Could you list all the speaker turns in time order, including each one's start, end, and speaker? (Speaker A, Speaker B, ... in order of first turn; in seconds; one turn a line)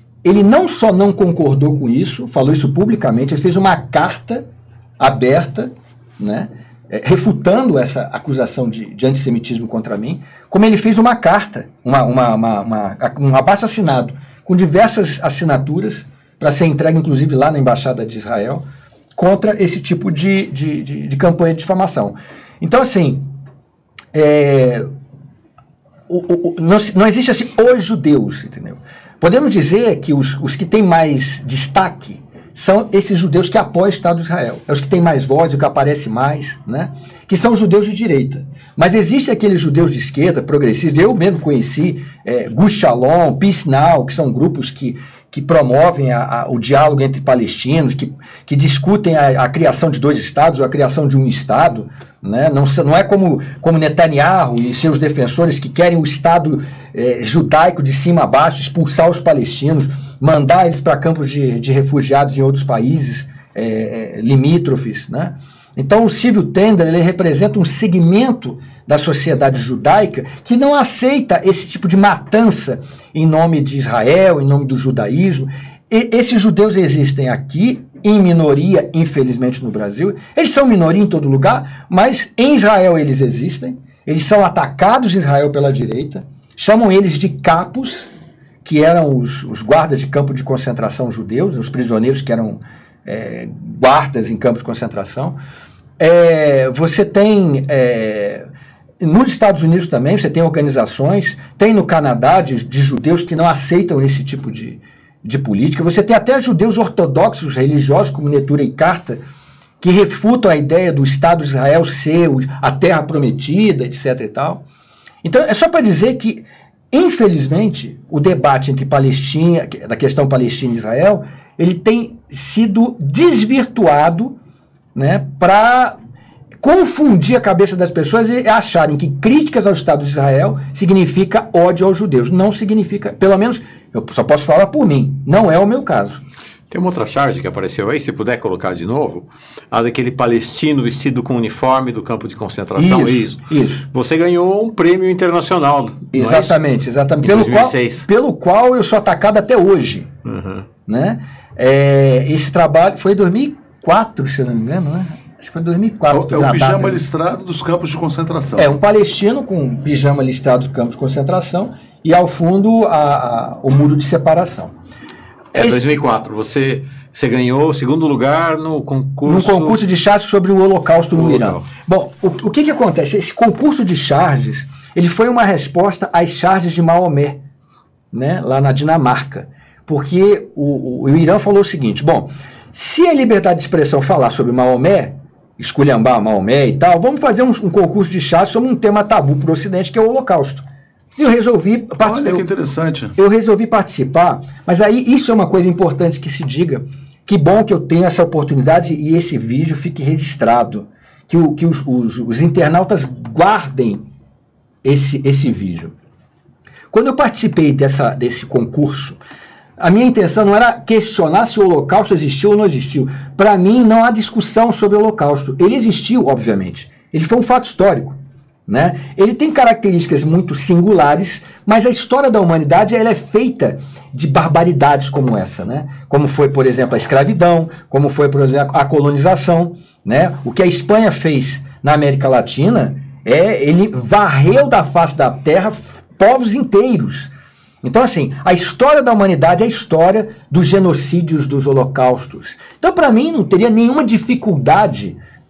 Speaker A: 0.2-4.5
Speaker A: 5.0-18.6
Speaker A: 19.2-23.2
Speaker A: 24.1-24.9
Speaker A: 26.1-88.1
Speaker A: 88.6-95.4
Speaker A: 96.0-98.5
Speaker A: 99.0-109.2
Speaker A: 109.8-114.6
Speaker A: 115.2-124.4
Speaker A: 125.0-126.0
Speaker A: 126.6-136.2
Speaker B: 136.7-146.6
Speaker A: 142.8-143.9
Speaker A: 146.1-150.1
Speaker B: 147.2-148.1
Speaker B: 150.2-150.7
Speaker A: 150.9-157.0
Speaker C: 156.1-158.7
Speaker A: 158.6-164.7
Speaker B: 165.5-169.8
Speaker A: 165.6-165.8
Speaker A: 169.3-177.4
Speaker B: 171.1-171.6
Speaker A: 178.1-190.6
Speaker A: 191.2-192.4
Speaker C: 192.0-193.2
Speaker A: 193.2-204.0
Speaker A: 204.8-205.9
Speaker A: 206.9-209.2
Speaker A: 209.8-237.3
Speaker A: 237.8-245.2